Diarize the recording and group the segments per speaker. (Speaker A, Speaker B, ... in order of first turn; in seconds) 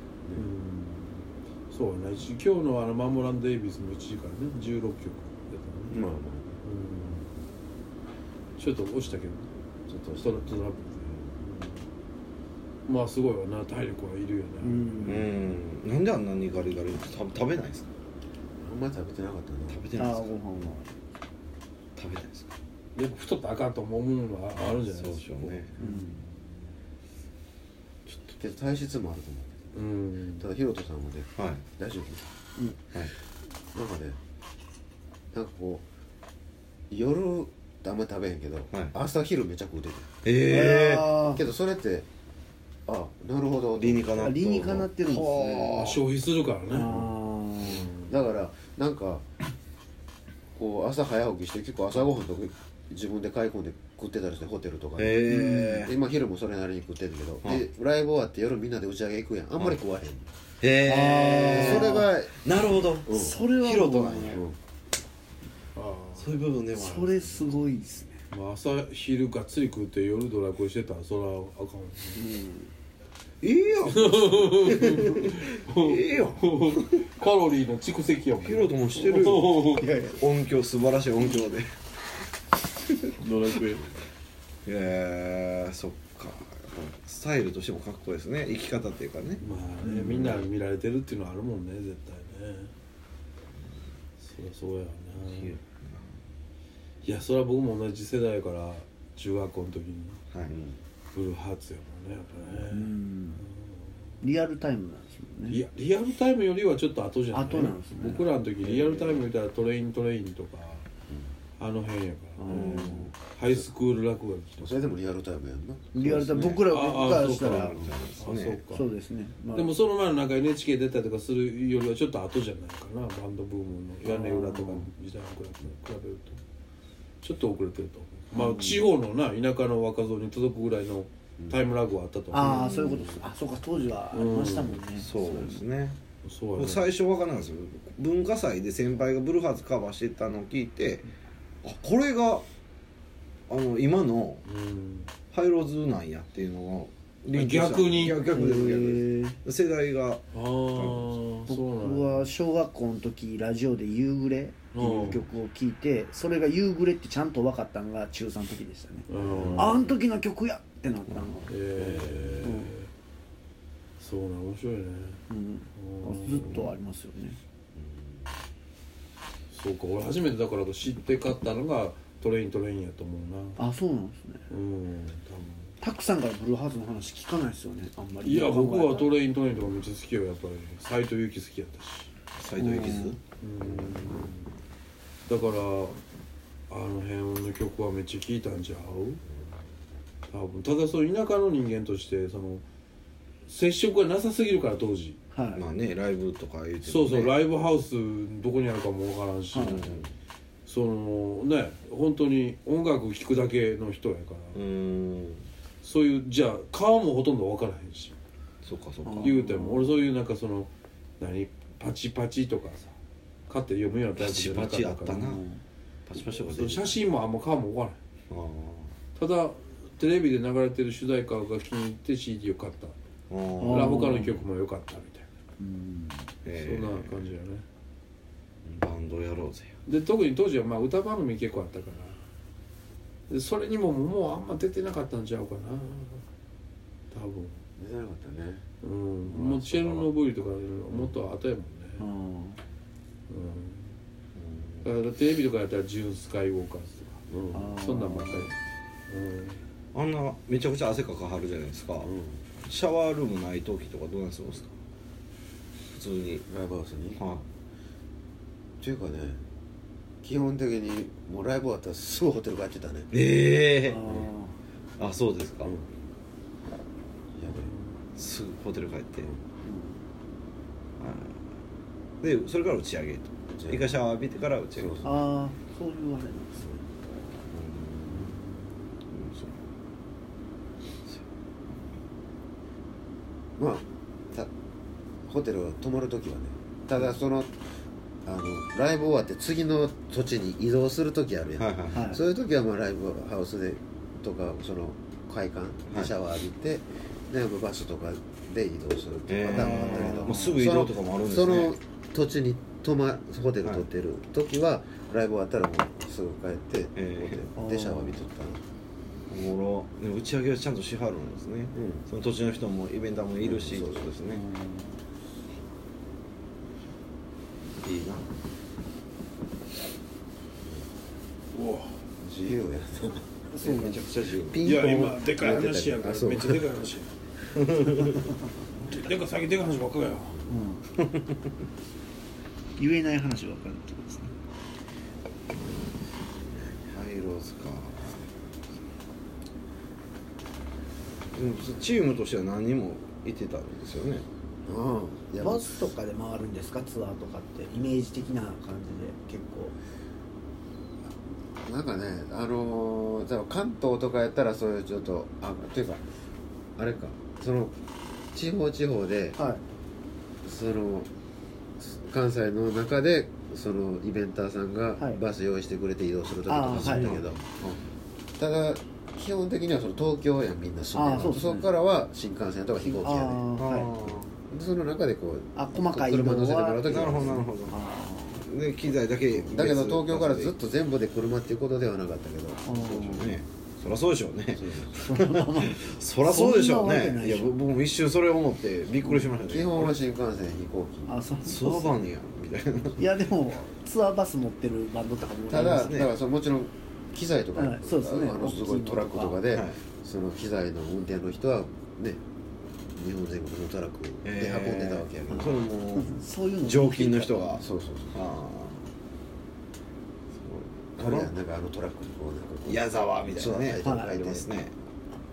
Speaker A: 0.3-6.0, 6.6-7.3, 8.6-9.5, 10.2-11.8, 12.9-15.2, 23.0-25.6, 29.7-30.5, 45.7-47.0, 65.8-66.3, 68.3-72.2, 73.9-79.9, 83.2-83.8, 89.4-92.7, 94.2-95.6, 97.0-100.2, 101.1-103.8, 105.5-110.8, 111.6-114.8, 116.7-118.9, 119.5-126.4, 127.2-133.0, 134.1-134.8, 136.2-136.8, 144.4-145.1, 147.3-148.2, 150.3-152.3, 154.7-155.2, 159.1-159.8, 161.5-162.9, 164.0-165.2, 165.8-166.7, 169.5-173.6, 174.5-175.7, 178.2-182.1, 183.4-184.5, 185.3-186.0, 186.7-189.2, 190.3-192.6, 193.5-195.2, 196.8-199.9, 200.7-204.6, 205.8-208.2, 209.2-212.9, 213.5-215.3, 216.4-218.0, 219.2-222.9, 223.6-225.3, 226.5-227.6, 229.9-232.2, 233.3-236.2, 237.1-237.6, 238.8-242.1, 243.3-243.9, 244.8-248.6, 249.1-249.6, 267.5-267.9, 321.5-322.0, 324.6-327.1, 328.8-330.4
Speaker B: 5.9-6.6, 9.9-11.3, 18.6-19.9, 28.3-29.8, 30.4-32.3, 33.7-34.2, 35.3-35.8, 36.9-40.1, 41.3-42.1, 42.9-44.8, 48.0-49.2, 50.5-55.2, 55.8-60.3, 61.5-62.3, 63.1-63.4, 64.3-64.6, 114.6-115.9, 159.2-159.9, 161.8-162.5, 237.8-238.6, 239.2-240.1, 247.3-247.7, 252.0-252.4, 256.5-257.2, 258.8-259.4, 260.2-263.1, 267.4-267.7, 273.5-273.9, 274.8-275.2, 277.5-278.4, 283.6-284.5, 285.2-287.5, 288.2-308.6, 311.7-312.0, 313.4-314.1, 322.2-323.3, 324.5-326.6, 344.7-345.8, 351.6-356.0, 356.8-357.8, 358.3-359.4, 360.4-361.1, 361.8-367.4, 368.4-373.5, 374.5-377.5, 379.3-383.3, 384.6-385.0, 389.5-391.2, 395.5-402.2, 402.9-405.6, 407.6-408.2, 411.0-414.5
Speaker C: 14.6-15.3, 20.0-20.9, 25.8-26.2, 40.5-41.4, 44.2-45.8, 46.7-48.0, 55.3-55.9, 60.8-62.1, 63.1-64.4, 66.7-68.2, 72.2-72.7, 79.8-80.2, 89.8-90.2, 102.7-103.4, 104.2-105.6, 107.3-108.3, 112.4-113.1, 115.9-117.8, 118.7-119.7, 124.0-124.9, 128.3-128.9, 132.3-135.6, 148.2-149.4, 151.5-161.5, 162.4-162.7, 165.3-167.4, 173.6-174.4, 175.8-179.1, 182.6-183.2, 195.3-195.6, 199.5-199.8, 209.1-210.0, 215.1-215.6, 223.6-224.4, 225.6-226.3, 242.0-242.6, 247.5-248.5, 263.8-264.6, 269.6-270.0, 275.0-276.7, 291.9-292.2, 299.6-300.6, 307.6-308.2, 314.3-315.0, 323.5-324.0, 330.5-330.8, 332.8-334.3, 345.4-349.8, 359.4-359.6, 366.5-367.2, 370.9-371.7, 372.8-373.9, 375.6-378.5, 382.6-383.4, 384.9-387.6, 389.1-389.3, 391.1-392.0, 393.0-396.0, 397.6-399.4, 405.9-407.6, 413.8-414.4
Speaker D: 15.0-17.9, 19.7-20.8, 22.0-22.5, 24.6-25.8, 31.4-31.6, 40.2-41.2, 43.8-46.0, 55.0-56.0, 60.6-64.5, 66.2-67.4, 73.4-77.0, 78.4-81.8, 82.9-83.2, 84.7-89.4, 90.0-90.5, 95.2-96.1, 100.3-100.6, 112.5-113.1, 116.0-118.6, 132.5-133.1, 135.0-136.0, 136.6-141.1, 141.6-142.5, 143.5-144.4, 145.3-151.2, 182.4-183.2, 195.6-197.4, 199.6-200.1, 204.5-205.5, 208.6-209.4, 214.2-215.4, 216.1-217.0, 218.3-218.9, 223.3-224.1, 226.4-227.3, 228.7-229.7, 244.4-244.8, 249.9-252.1, 252.6-254.7, 255.9-256.4, 257.2-257.4, 263.1-264.3, 265.0-265.7, 268.2-269.3, 271.0-271.4, 272.2-275.1, 277.6-278.3, 279.1-279.7, 281.1-281.9, 291.6-292.1, 299.3-301.8, 307.0-307.5, 309.3-314.4, 317.8-318.3, 323.6-325.0, 327.6-328.3, 331.0-331.3, 336.9-338.3, 341.3-344.3, 366.7-367.8, 373.6-374.4, 376.9-377.8, 378.4-380.5, 382.7-390.0, 391.4-393.3, 395.5-396.1, 399.5-399.8, 404.2-408.9, 410.4-411.3, 412.7-414.7